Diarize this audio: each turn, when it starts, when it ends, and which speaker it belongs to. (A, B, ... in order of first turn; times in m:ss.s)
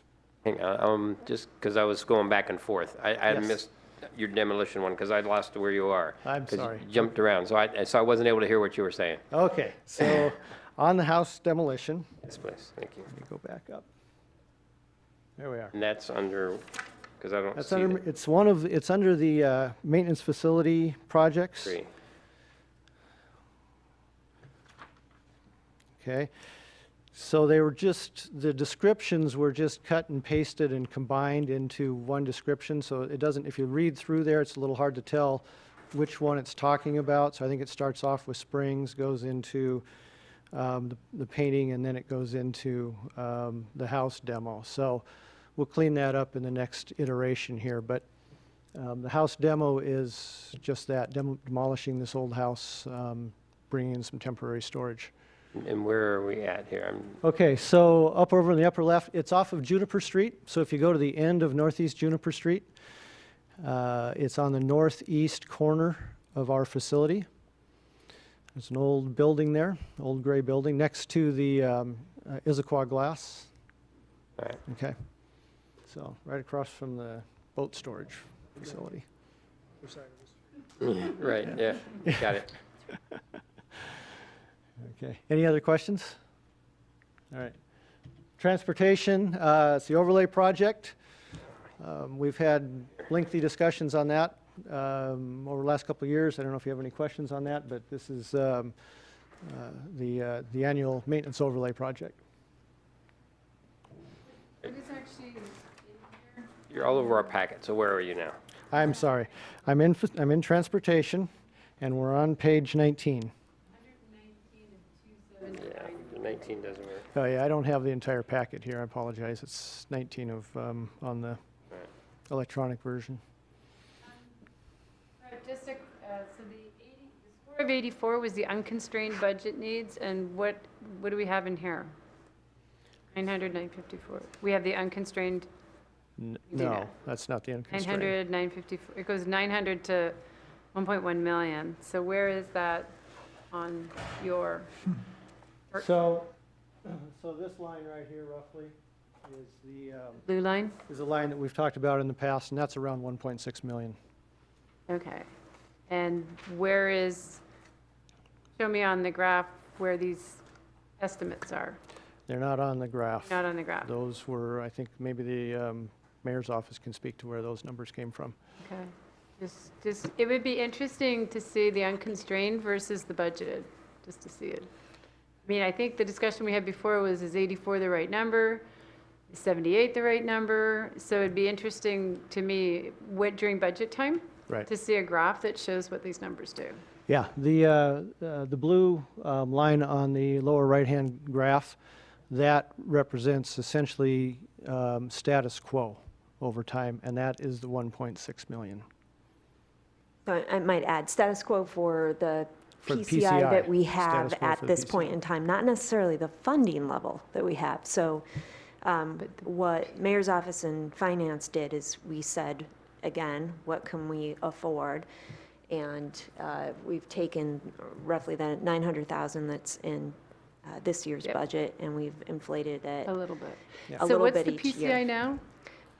0:00.4-0:09.2 A
0:03.3-0:03.6 B
0:06.2-0:06.9 B
0:09.3-0:12.1 B
0:12.2-0:13.1 A
0:13.1-0:13.9 B
0:15.4-0:15.7 B
0:15.7-0:16.7 A
0:17.2-0:18.0 A
0:17.5-0:21.8 B
0:21.6-0:21.9 A
0:26.0-0:26.3 B
0:27.1-0:39.8 B
0:40.5-0:45.0 B
0:45.6-0:48.0 B
0:48.7-0:55.1 B
0:55.5-0:57.2 A
0:57.2-1:02.7 B
1:03.6-1:07.2 B
1:08.5-1:13.5 B
1:14.6-1:15.0 B
1:15.8-1:19.0 B
1:20.8-1:22.5 A
1:22.0-1:22.4 B
1:24.8-1:26.2 B
1:27.3-1:27.6 B
1:28.4-1:31.0 B
1:31.8-1:38.7 B
1:39.4-1:42.2 B
1:44.6-1:46.6 C
1:46.7-1:48.4 A
1:48.7-1:51.3 B
1:51.8-1:53.3 B
1:53.8-1:56.2 C
1:55.5-1:57.0 A
1:57.1-2:01.4 B
2:02.3-2:03.2 B
2:05.2-2:11.9 C
2:13.1-2:15.5 C
2:16.2-2:18.2 B
2:16.5-2:16.9 C
2:17.7-2:20.2 C
2:20.7-2:22.9 C
2:23.5-2:24.7 C
2:25.7-2:30.3 B
2:30.2-2:30.8 C
2:30.8-2:34.0 B
2:34.9-2:35.2 C
2:35.9-2:37.4 C
2:38.6-2:40.4 C
2:41.0-2:41.8 C
2:42.3-2:48.4 B
2:43.2-2:43.9 C
2:48.6-2:54.7 C
2:55.4-2:58.6 C
2:59.3-3:06.8 C
3:07.1-3:11.8 B
3:12.3-3:18.8 B
3:20.2-3:28.2 D
3:22.8-3:25.2 B
3:28.8-3:35.0 D
3:35.7-3:43.1 D
3:43.0-3:45.4 C
3:44.0-3:45.0 D